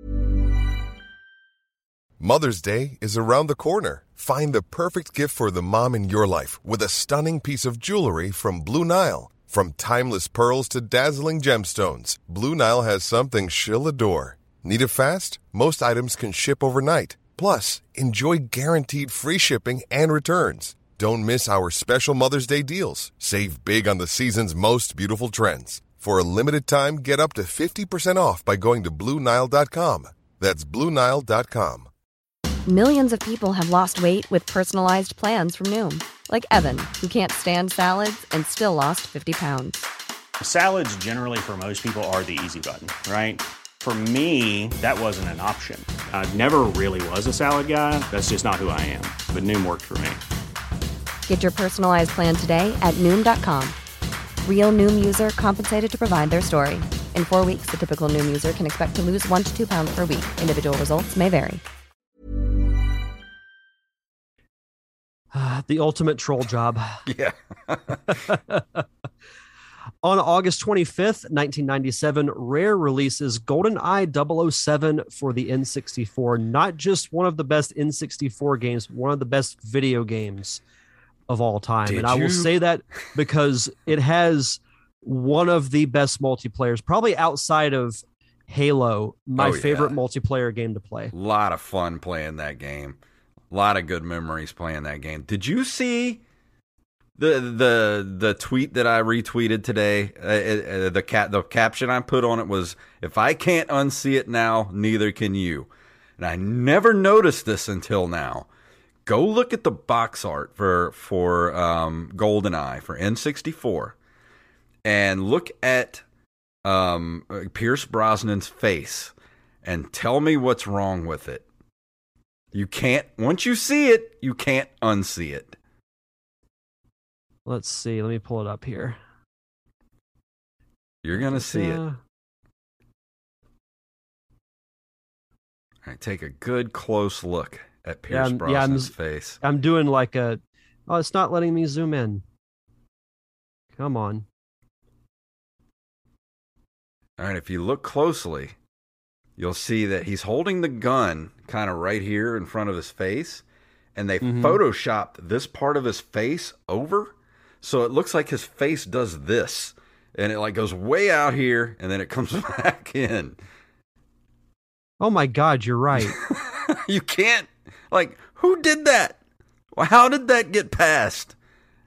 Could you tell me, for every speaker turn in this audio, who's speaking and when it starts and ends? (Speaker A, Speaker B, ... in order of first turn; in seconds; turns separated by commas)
Speaker A: 2.2-31.9, Speaker B: 32.7-39.9, Speaker C: 40.4-50.2, Speaker B: 51.3-53.8, Speaker B: 54.4-61.6, Speaker D: 65.3-67.0, Speaker E: 67.1-68.2, Speaker D: 68.1-68.8, Speaker D: 70.0-80.6, Speaker D: 81.3-91.1, Speaker E: 81.8-82.5, Speaker E: 89.4-89.9, Speaker E: 91.1-93.0, Speaker E: 93.5-96.2, Speaker E: 97.2-108.5, Speaker E: 109.1-114.0, Speaker E: 114.8-116.0, Speaker E: 116.7-119.1, Speaker E: 119.6-121.5, Speaker E: 122.5-125.6, Speaker D: 127.5-129.0, Speaker E: 131.0-131.8, Speaker D: 131.2-132.0, Speaker E: 135.8-139.4, Speaker D: 138.1-142.2, Speaker D: 143.8-144.2, Speaker E: 147.2-148.6, Speaker E: 149.4-153.4, Speaker E: 153.9-163.4, Speaker D: 154.2-154.6, Speaker D: 165.0-166.2, Speaker E: 166.0-169.2, Speaker E: 169.7-171.3